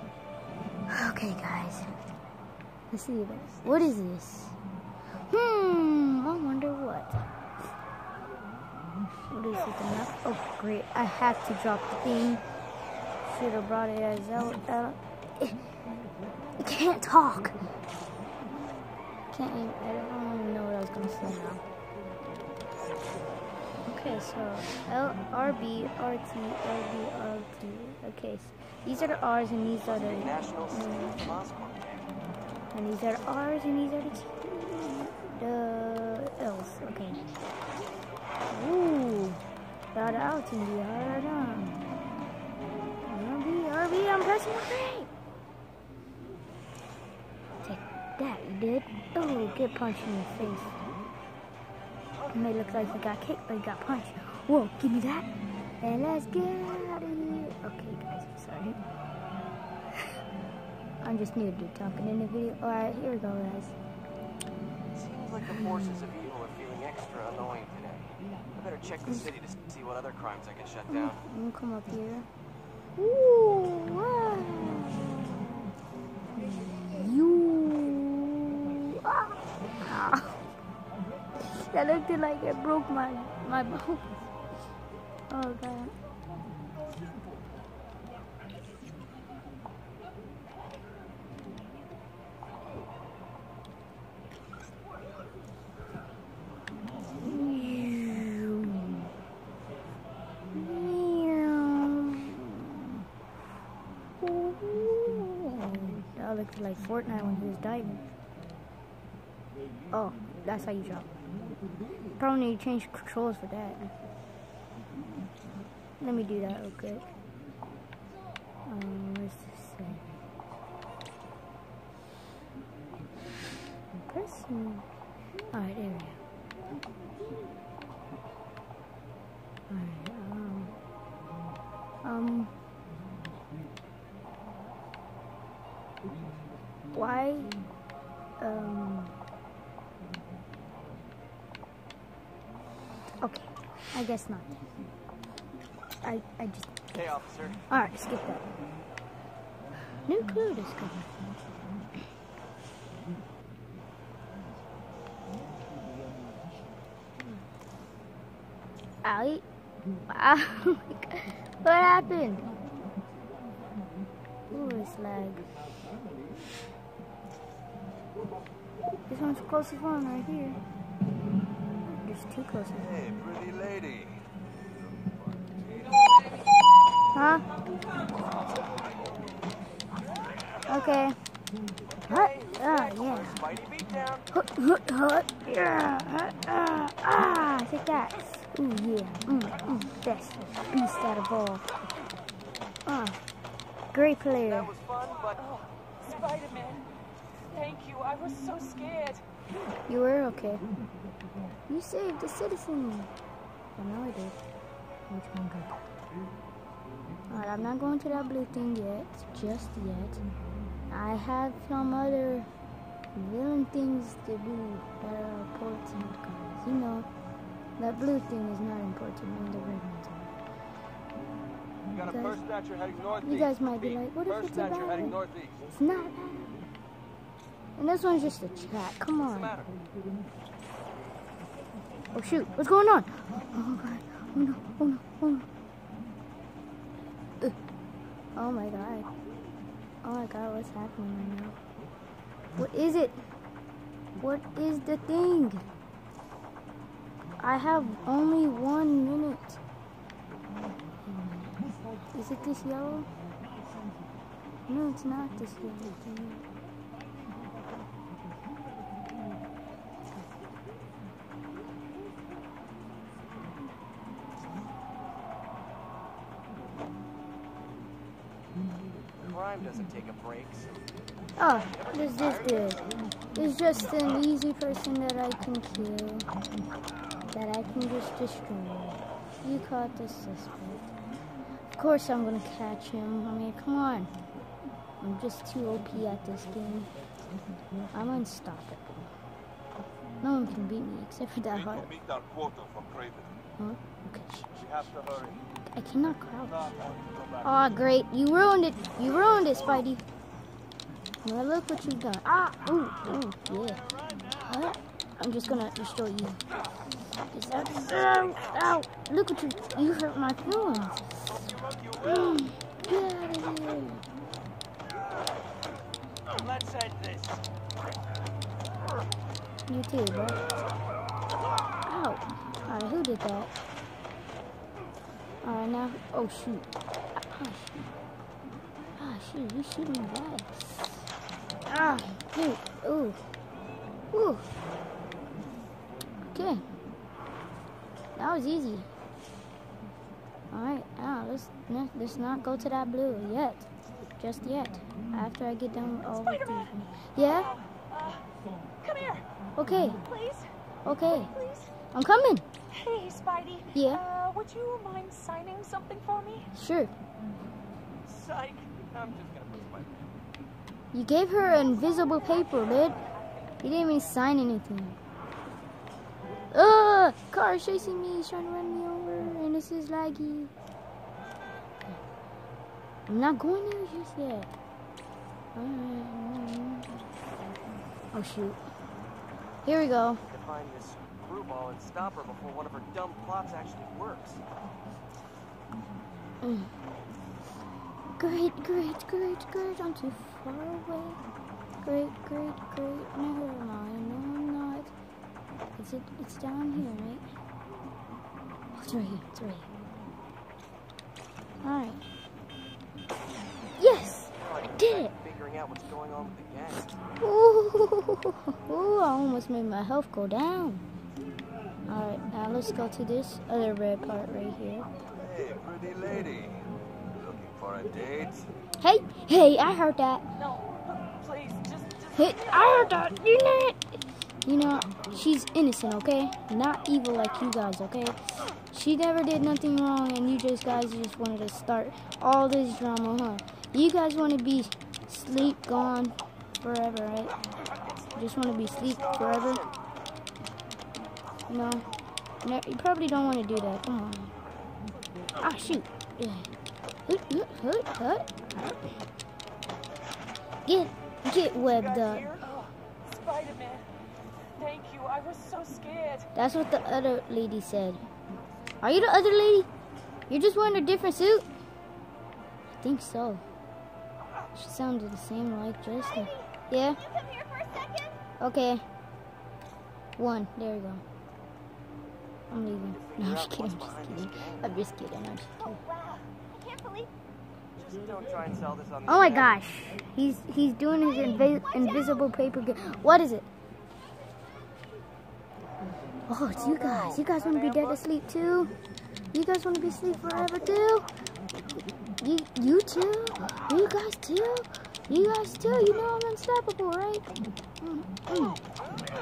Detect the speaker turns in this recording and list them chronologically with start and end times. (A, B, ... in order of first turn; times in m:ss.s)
0:00.9-0:02.0 A
0:02.9-0:04.6 A
0:03.3-0:03.9 B
0:05.3-0:07.3 A
0:09.3-0:12.4 A
0:13.2-0:15.6 A
0:16.6-0:17.7 A
0:19.3-0:21.6 A
0:23.9-0:31.2 A
0:29.9-0:32.0 B
0:32.7-0:37.2 A
0:38.5-0:39.4 A
0:39.9-0:41.8 A
0:43.0-0:45.1 A
0:47.6-0:50.8 A
0:52.1-0:52.6 B
0:52.3-0:55.3 A
0:55.8-0:58.8 A
1:01.0-1:03.8 A
1:04.9-1:11.2 B
1:05.4-1:06.0 A
1:10.9-1:12.3 A
1:13.0-1:15.6 A
1:16.4-1:20.4 A
1:21.4-1:24.1 A
1:25.3-1:25.9 A
1:37.2-1:39.1 A
1:40.5-1:43.0 A
1:44.2-1:48.0 A
1:49.9-1:51.1 A
1:52.2-1:53.9 A
1:56.0-1:57.1 A
1:58.6-2:00.1 A
2:03.9-2:04.8 A
2:05.5-2:06.2 A
2:09.7-2:10.7 A
2:12.0-2:12.5 A
2:16.9-2:17.6 A
2:18.4-2:19.1 A
2:23.2-2:24.5 A
2:26.0-2:26.8 A
2:26.9-2:27.6 B
2:27.7-2:28.5 A
2:30.0-2:31.1 A
2:39.0-2:39.4 A
2:40.1-2:42.5 A
2:44.5-2:45.5 A
2:49.1-2:50.6 A
2:51.9-2:53.1 A
2:52.9-2:54.2 C
2:57.1-2:57.5 A
3:00.6-3:01.2 A
3:02.0-3:04.3 B
3:02.1-3:03.4 A
3:04.3-3:11.7 A
3:12.8-3:13.2 A
3:13.9-3:14.7 A
3:14.4-3:15.4 B
3:15.4-3:16.8 D
3:17.5-3:19.2 D
3:19.9-3:20.7 A
3:21.7-3:23.1 A
3:23.8-3:24.4 A
3:25.1-3:25.8 A
3:27.3-3:30.2 A
3:30.9-3:32.5 A
3:33.1-3:37.1 A
3:37.8-3:40.3 A
3:41.9-3:45.6 B
3:42.1-3:42.4 A
3:43.2-3:45.2 A
3:45.7-3:46.6 A
3:47.8-3:49.6 A
3:49.2-3:49.7 B
3:52.1-3:55.5 A
3:58.4-3:59.1 A
4:00.0-4:01.6 A
4:02.5-4:03.2 A
4:04.2-4:05.6 A
4:07.4-4:09.6 A
4:12.1-4:13.1 A
4:14.7-4:16.4 A
4:29.2-4:30.8 B
4:31.4-4:32.8 A
4:31.4-4:32.9 B
4:33.3-4:36.3 A
4:37.3-4:40.9 A
4:41.8-4:44.1 A
4:45.0-4:46.9 A
4:47.9-4:49.0 A
4:50.2-4:51.9 A
4:51.7-4:53.4 C
4:53.6-4:55.0 A
4:55.7-4:56.7 A
4:56.9-4:57.3 C
4:57.4-5:00.0 A
5:01.2-5:06.4 A
5:07.3-5:11.2 A
5:11.5-5:12.0 B
5:12.0-5:14.0 A
5:16.3-5:17.4 B
5:19.7-5:20.4 A
5:21.8-5:23.5 A
5:25.4-5:27.8 A
5:29.0-5:31.1 A
5:31.6-5:33.2 A
5:34.1-5:34.5 A
5:36.2-5:36.6 A
5:38.2-5:38.9 A
5:40.5-5:43.7 A
5:44.2-5:47.5 A
5:46.2-5:48.2 D
5:48.8-5:49.2 D
5:49.6-5:50.0 A
5:50.0-5:50.5 D
5:50.8-5:51.3 A
5:51.1-5:51.7 D
5:51.9-5:52.5 A
5:52.7-5:56.5 D
5:53.7-5:54.0 A
5:56.5-5:56.9 A
5:58.0-6:00.1 B
6:00.9-6:03.1 A
6:03.6-6:05.0 A
6:06.5-6:10.5 A
6:13.1-6:14.5 A
6:15.5-6:16.9 A
6:18.1-6:18.6 A
6:19.6-6:20.2 A
6:20.3-6:24.4 B
6:26.4-6:26.7 A
6:28.2-6:31.2 A
6:31.8-6:34.9 A
6:35.8-6:37.2 A
6:38.7-6:39.7 A
6:41.6-6:42.0 A
6:43.8-6:45.1 A
6:44.4-6:47.0 B
6:47.2-6:50.8 A
6:51.9-6:54.9 A
6:55.2-6:58.5 C
6:58.8-7:00.2 A
7:00.4-7:02.9 D
7:02.2-7:17.3 A
7:18.0-7:19.7 B
7:18.2-7:19.6 A
7:21.5-7:21.8 A
7:22.4-7:24.3 A
7:25.4-7:26.5 A
7:27.0-7:29.0 A
7:30.6-7:32.3 A
7:31.5-7:32.5 B
7:32.4-7:33.9 D
7:34.6-7:36.3 D
7:36.3-7:38.0 A
7:38.8-7:39.7 A
7:40.3-7:41.5 A
7:42.7-7:43.4 A
7:44.5-7:47.0 A
7:47.1-7:48.1 E
7:47.1-7:48.1 D
7:48.4-7:48.8 A
7:50.2-7:51.0 A
7:52.5-7:55.8 A
7:52.9-7:54.8 B
7:55.8-7:57.1 D
7:55.9-7:57.1 E
7:57.8-7:59.5 B
7:59.1-8:03.5 A
8:06.3-8:08.7 A
8:06.5-8:08.0 B
8:09.3-8:11.0 A
8:12.2-8:17.3 A
8:17.8-8:18.6 A